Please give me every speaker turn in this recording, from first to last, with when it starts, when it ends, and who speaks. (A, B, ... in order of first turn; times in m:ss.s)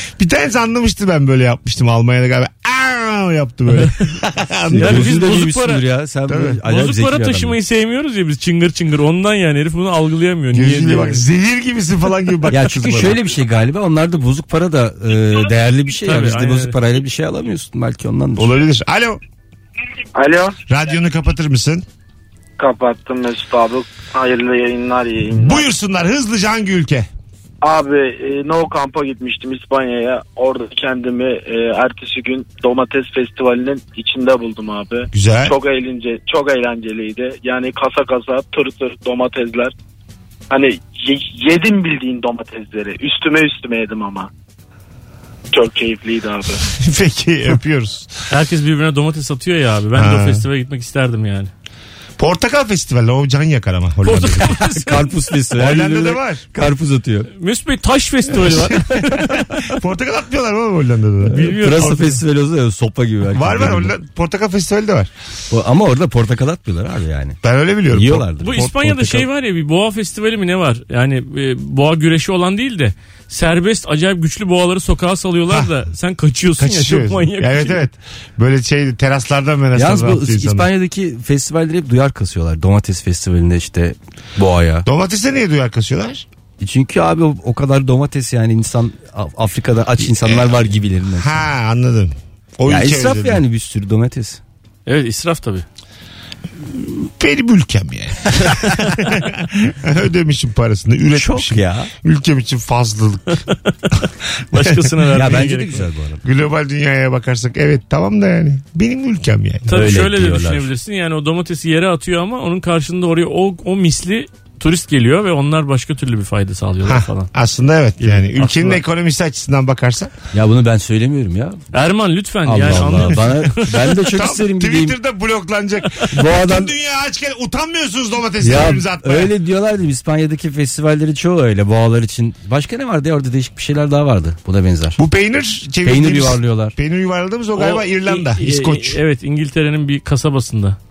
0:00.2-0:05.2 A
0:04.7-0:07.6 B
0:04.8-0:05.9 C
0:06.3-0:06.6 A
0:06.6-0:11.2 C
0:10.5-0:13.2 A
0:12.5-0:18.5 B
0:16.0-0:16.8 C
0:18.4-0:19.2 A
0:20.2-0:20.6 D
0:20.7-0:21.8 A
0:22.6-0:25.7 D
0:25.4-0:27.1 A
0:27.6-0:39.7 D
0:35.1-0:35.6 A
0:40.5-0:44.3 D
0:45.5-0:46.6 D
0:46.8-0:48.1 A
0:48.3-0:51.5 C
0:49.9-0:50.4 A
0:52.2-0:54.5 A
0:54.0-0:55.0 C
0:54.4-0:57.3 B
0:55.6-0:56.4 A
0:57.3-0:59.8 C
0:58.4-1:02.0 A
1:01.3-1:03.9 B
1:01.3-1:02.1 C
1:03.3-1:05.1 A
1:05.5-1:07.4 B
1:07.4-1:09.0 A
1:07.9-1:09.2 B
1:08.4-1:17.9 C
1:16.6-1:20.7 A
1:19.8-1:24.9 B
1:24.9-1:26.2 A
1:26.6-1:31.4 B
1:30.2-1:30.6 A
1:31.2-1:33.4 A
1:32.7-1:34.4 B
1:34.9-1:35.7 C
1:36.7-1:43.4 A
1:41.1-1:41.9 B
1:44.5-1:45.9 C
1:45.1-1:46.2 B
1:46.2-1:49.8 A
1:49.7-1:57.3 C
1:49.7-1:50.7 B
1:56.8-2:00.1 A
1:58.0-1:58.8 C
2:00.3-2:01.6 B
2:01.7-2:04.0 C
2:02.4-2:05.0 B
2:04.1-2:09.3 A
2:06.1-2:06.7 B
2:08.4-2:15.0 B
2:15.0-2:19.0 A
2:15.8-2:16.7 B
2:17.6-2:20.8 C